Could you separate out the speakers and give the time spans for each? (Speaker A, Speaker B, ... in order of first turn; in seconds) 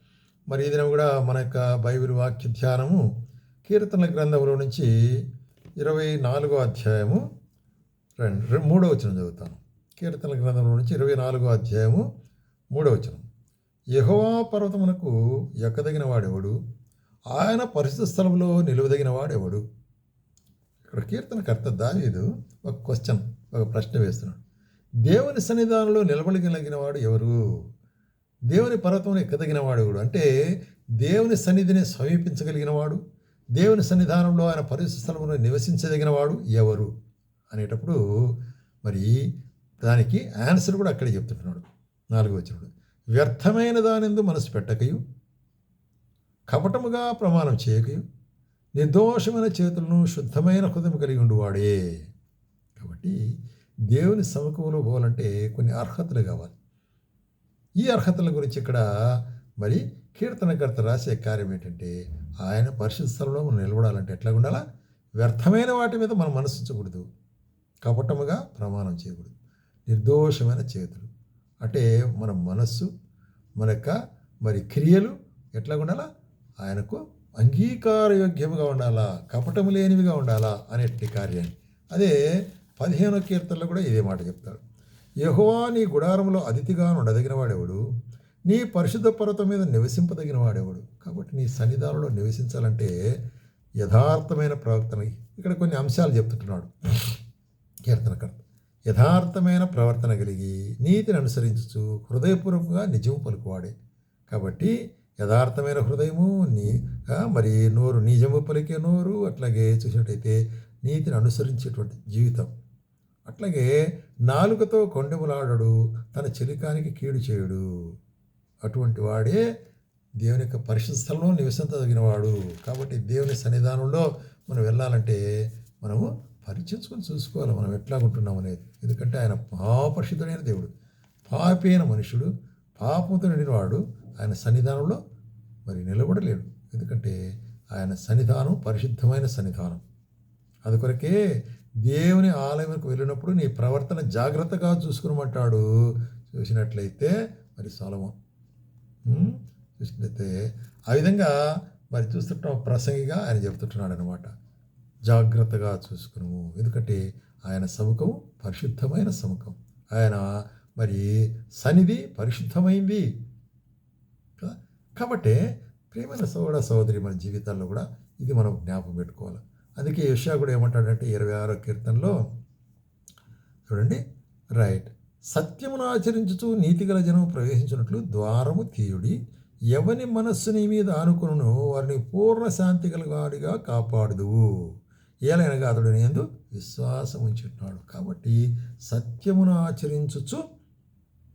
Speaker A: 0.5-3.0, 3.6-4.9, 5.8-7.2, 8.2-12.0, 12.7-13.2, 13.9-16.6, 17.3-19.6, 20.9-24.4, 25.0-27.4, 28.5-30.3, 31.0-33.0, 33.5-36.9, 37.5-38.3, 38.8-39.2, 39.8-45.0, 46.5-48.0, 48.8-52.0, 52.8-53.2, 53.9-56.5, 57.8-64.6, 65.2-67.0, 67.8-69.3, 69.9-71.1, 71.6-72.9, 73.6-76.0, 76.6-82.2, 82.8-84.6, 85.2-87.8, 88.5-92.9, 93.8-97.2, 97.8-103.7, 104.3-112.5, 113.2-113.7, 114.2-117.6, 118.6-119.4, 120.2-125.2, 125.8-130.7, 131.3-135.0, 135.7-137.2, 137.7-139.8, 140.6-141.2, 141.8-145.7, 146.3-148.2, 149.1-151.3, 151.9-154.3, 155.1-163.1, 164.4-165.4, 165.9-172.2, 173.7-174.0, 174.5-179.2, 179.7-184.7, 185.2-190.4